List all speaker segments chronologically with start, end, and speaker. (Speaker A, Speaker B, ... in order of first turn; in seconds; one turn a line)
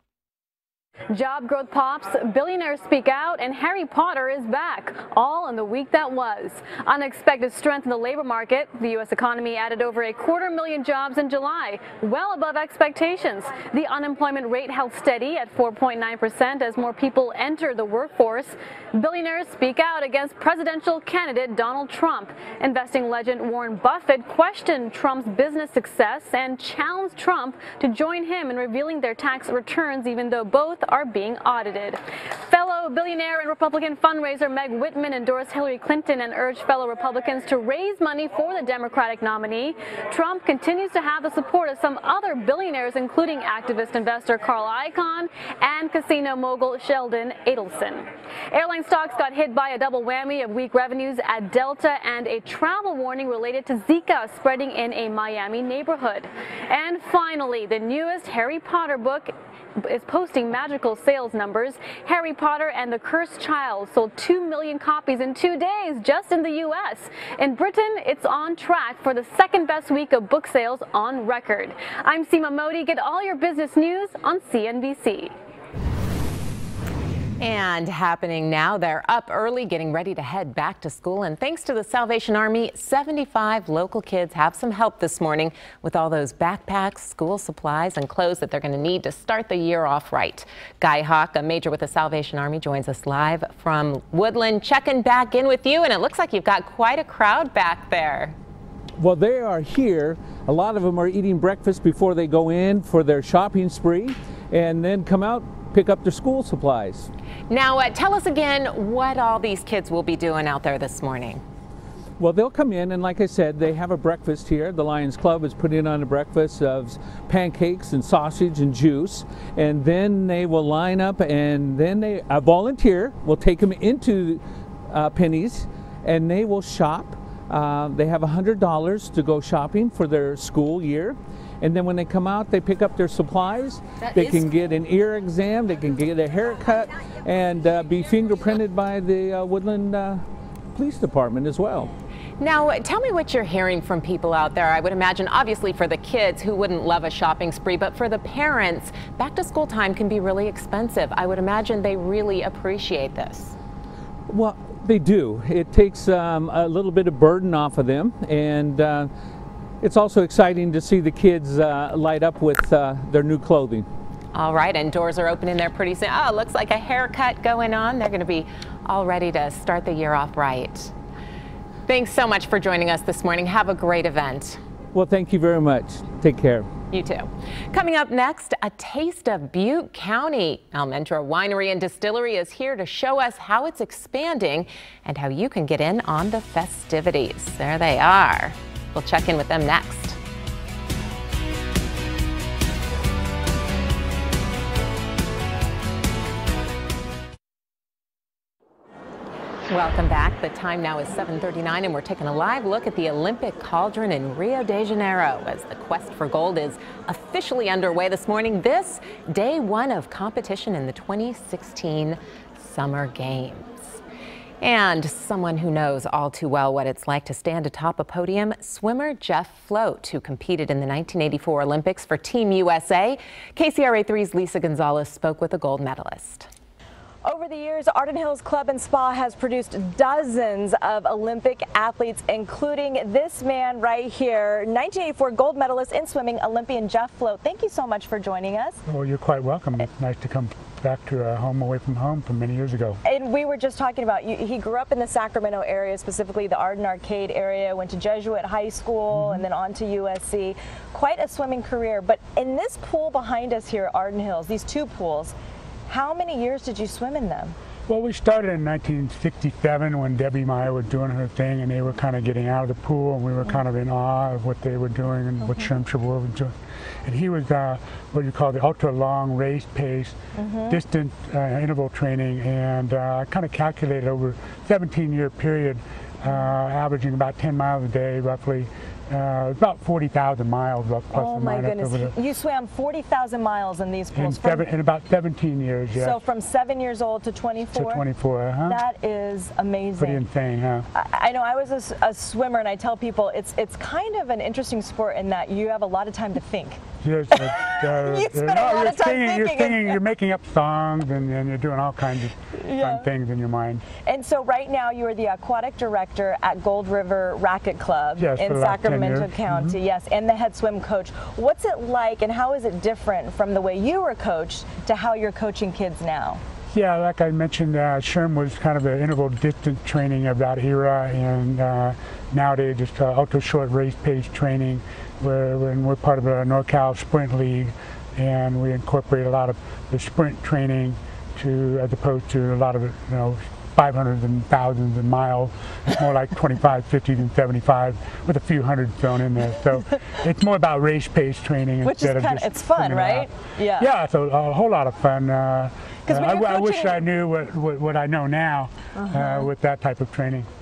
Speaker A: 1.1-75.3
Speaker B: 77.4-98.4
Speaker C: 99.0-107.1
Speaker B: 107.5-111.4
Speaker C: 112.2-140.2
Speaker C: 140.8-141.9
Speaker B: 142.4-153.5
Speaker C: 154.3-159.1
Speaker C: 159.8-163.9
Speaker B: 164.3-170.9
Speaker B: 171.9-174.6
Speaker C: 174.9-176.7
Speaker B: 176.9-190.2
Speaker B: 199.7-214.0
Speaker B: 214.6-226.5
Speaker D: 227.2-238.8
Speaker E: 238.9-243.0
Speaker D: 243.0-255.3
Speaker E: 249.1-249.5
Speaker D: 255.9-257.6
Speaker E: 257.9-266.5
Speaker E: 267.1-270.2
Speaker D: 270.4-270.8
Speaker E: 270.7-282.1
Speaker D: 276.3-276.5
Speaker D: 281.1-284.6
Speaker E: 284.1-286.2
Speaker D: 285.9-288.1
Speaker E: 287.7-288.8
Speaker D: 288.6-290.2
Speaker E: 290.0-290.9
Speaker D: 290.9-296.8
Speaker E: 297.0-303.9
Speaker D: 297.4-300.0
Speaker D: 302.6-303.1
Speaker D: 304.0-316.4
Speaker E: 308.2-309.8
Speaker E: 316.7-350.5
Speaker D: 341.8-343.9
Speaker D: 346.1-347.0
Speaker D: 349.0-349.5